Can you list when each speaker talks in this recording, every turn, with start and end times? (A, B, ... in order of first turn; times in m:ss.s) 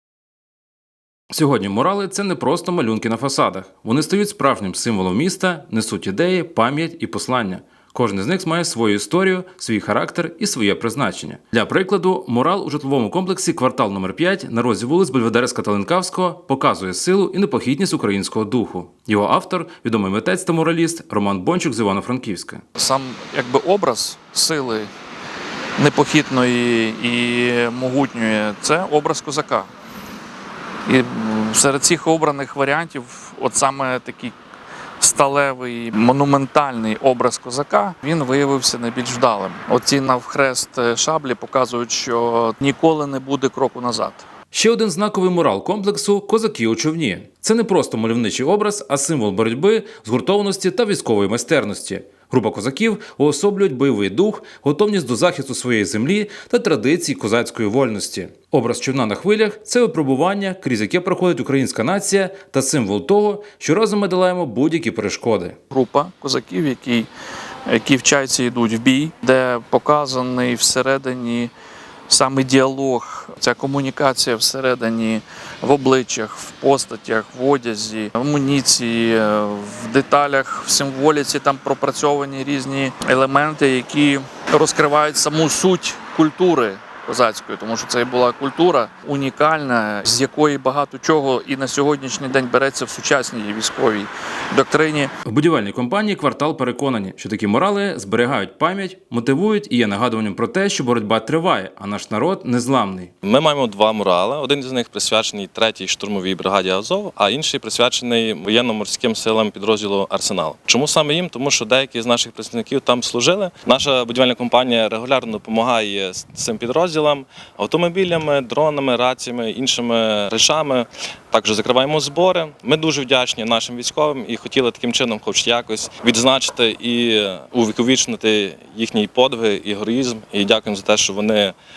0:01.3-0:22.6 A
0:22.8-0:24.9 B
0:25.8-0:29.7 B
0:30.8-0:34.4 B
0:35.0-0:44.2 B
0:44.5-1:05.6 A
1:05.7-1:07.1 B
1:07.7-1:11.5 B
1:12.1-1:35.1 B
1:35.2-1:43.1 A
1:43.2-2:11.6 C